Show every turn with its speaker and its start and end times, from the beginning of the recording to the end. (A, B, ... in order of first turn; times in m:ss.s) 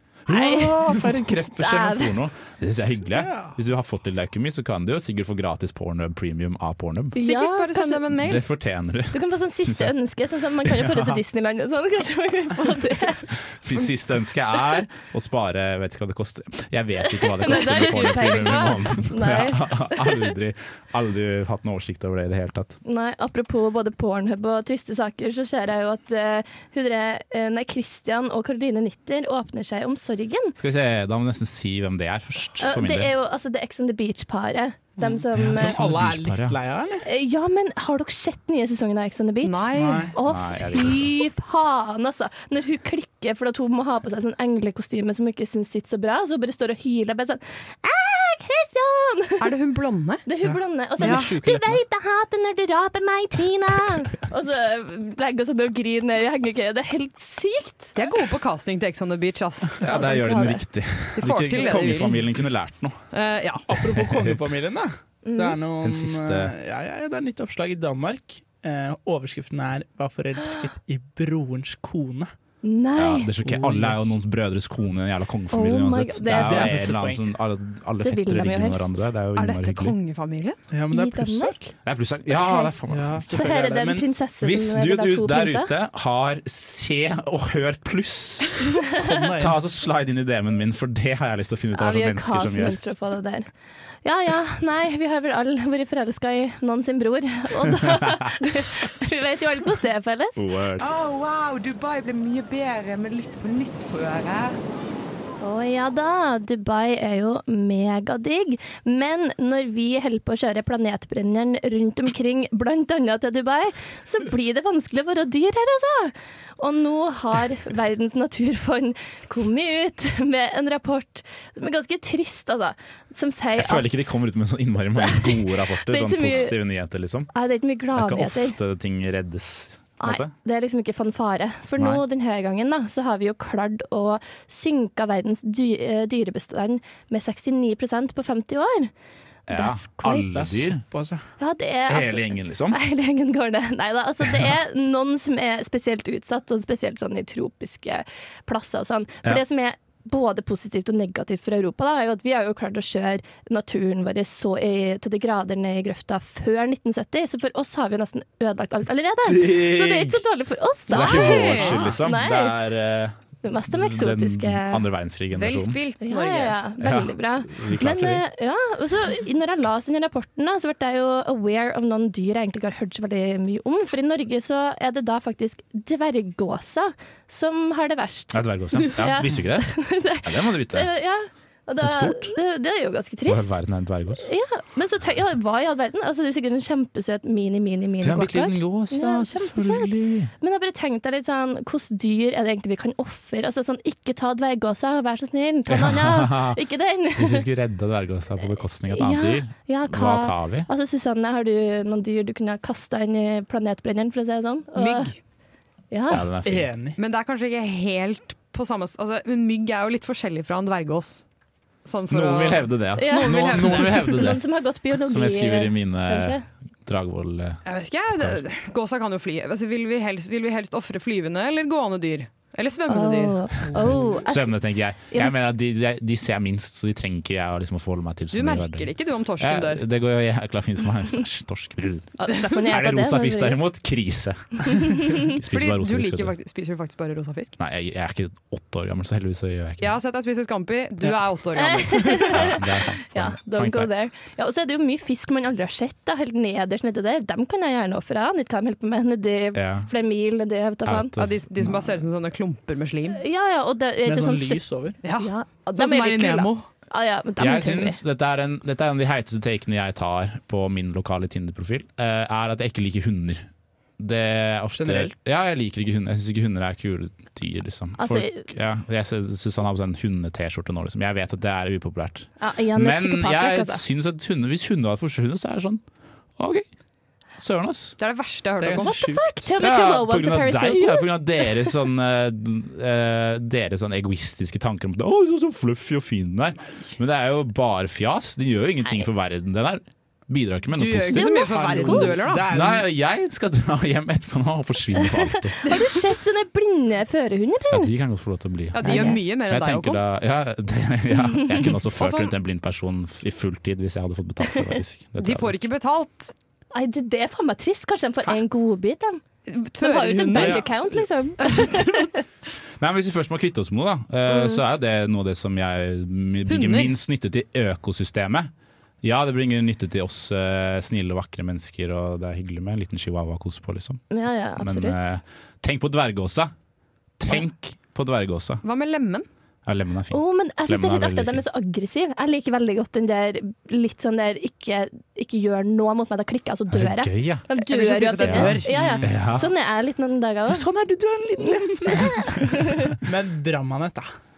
0:00.3-0:07.2 A
0:00.3-0:02.2 B
0:03.1-0:03.5 C
0:07.1-0:08.0 B
0:07.2-0:08.4 D
0:08.1-0:09.9 A
0:09.1-0:13.3 B
0:10.6-0:11.2 A
0:13.3-0:22.8 A
0:17.0-0:20.3 B
0:22.8-0:30.6 B
0:30.6-0:33.1 A
0:32.6-0:35.8 B
0:35.0-0:37.0 C
0:35.3-0:36.6 A
0:37.0-0:49.5 B
0:39.4-0:40.1 D
0:39.7-0:40.2 C
0:40.2-0:41.1 A
0:49.4-0:50.2 D
0:50.2-0:57.9 B
0:50.4-0:51.8 C
0:51.0-0:51.3 D
0:58.0-0:59.9 D
0:59.8-1:03.0 A
0:59.9-1:00.6 B
1:01.2-1:02.3 D
1:03.1-1:03.7 D
1:03.7-1:12.3 C
1:03.8-1:04.4 A
1:05.2-1:05.6 B
1:05.8-1:06.5 A
1:12.6-1:13.3 B
1:13.0-1:20.0 A
1:13.4-1:14.2 C
1:15.5-1:16.8 B
1:16.3-1:17.3 C
1:18.0-1:19.0 B
1:19.4-1:20.6 D
1:20.7-1:21.7 C
1:20.9-1:21.5 B
1:21.8-1:23.6 A
1:22.3-1:22.7 B
1:22.9-1:24.0 C
1:23.3-1:25.7 B
1:24.4-1:32.8 A
1:29.0-1:29.6 C
1:31.7-1:33.5 B
1:34.0-1:40.4 B
1:40.4-1:40.9 A
1:40.8-1:44.5 E
1:45.4-2:04.2 B
2:03.6-2:07.3 A
2:05.0-2:06.6 B
2:07.3-2:08.6 B
2:07.9-2:10.3 A
2:10.0-2:18.9 B
2:11.8-2:12.0 A
2:19.5-2:20.8 A
2:19.5-2:20.4 B
2:20.3-2:21.2 C
2:21.4-2:42.6 B
2:21.9-2:22.8 A
2:39.2-2:40.2 A
2:40.9-2:43.2 A
2:40.9-2:41.9 D
2:43.4-2:44.8 B
2:43.7-2:45.8 A
2:45.3-2:46.6 D
2:46.0-3:03.6 B
2:46.8-2:48.2 A
2:58.3-3:00.9 A
3:01.8-3:02.3 A
3:03.2-3:04.3 A
3:04.2-3:17.5 B
3:08.0-3:10.3 A
3:15.7-3:16.6 A
3:17.2-3:20.7 A
3:18.9-3:25.1 B
3:24.8-3:25.2 D
3:25.9-3:26.2 B
3:26.1-3:26.7 A
3:26.4-3:27.0 C
3:27.0-3:31.2 D
3:31.8-3:34.2 D
3:32.1-3:37.6 A
3:33.0-3:36.4 B
3:37.6-3:43.6 D
3:38.1-3:38.4 A
3:42.9-3:44.6 B
3:43.7-3:56.3 A
3:45.1-3:45.3 B
3:48.3-3:49.8 D
3:52.2-3:53.6 B
3:54.7-3:55.2 B
3:55.4-3:57.6 D
3:57.6-4:00.0 A
3:59.8-4:02.5 D
4:01.6-4:11.1 B
4:02.2-4:03.9 A
4:09.5-4:09.9 A
4:10.8-4:12.0 A
4:11.2-4:13.2 D
4:13.1-4:18.0 B
4:14.0-4:15.0 C
4:15.0-4:16.6 D
4:17.4-4:23.5 A
4:24.0-4:35.8 A
4:24.8-4:25.1 C
4:28.0-4:28.5 B
4:32.4-4:33.8 B
4:36.4-4:36.6 A
4:37.4-4:38.0 A
4:38.0-4:39.2 D
4:38.6-4:39.5 C
4:38.8-4:41.4 B
4:39.6-4:51.7 A
4:50.7-4:52.5 D
4:51.1-4:52.2 B
4:51.5-4:52.8 C
4:52.3-4:55.6 A
4:55.0-4:57.9 B
4:55.6-4:56.0 D
4:57.7-5:05.6 A
4:58.7-5:00.0 D
4:58.8-4:59.2 B
5:02.0-5:02.3 D
5:05.2-5:06.3 D
5:06.7-5:09.2 B
5:09.5-5:10.8 D
5:09.8-5:12.2 B
5:10.4-5:10.6 A
5:11.4-5:12.1 D
5:12.8-5:18.5 A
5:14.3-5:14.6 B
5:16.5-5:16.9 D
5:19.0-5:24.0 A
5:24.1-5:25.2 B
5:24.6-5:26.5 A
5:27.2-5:28.6 A
5:28.6-5:29.2 D
5:29.6-5:31.4 A
5:30.1-5:40.6 B
5:36.7-5:37.4 A
5:37.6-5:38.7 D
5:38.2-5:39.5 A
5:38.7-5:39.2 C
5:40.5-5:43.0 A
5:41.4-5:42.9 B
5:43.0-5:44.1 C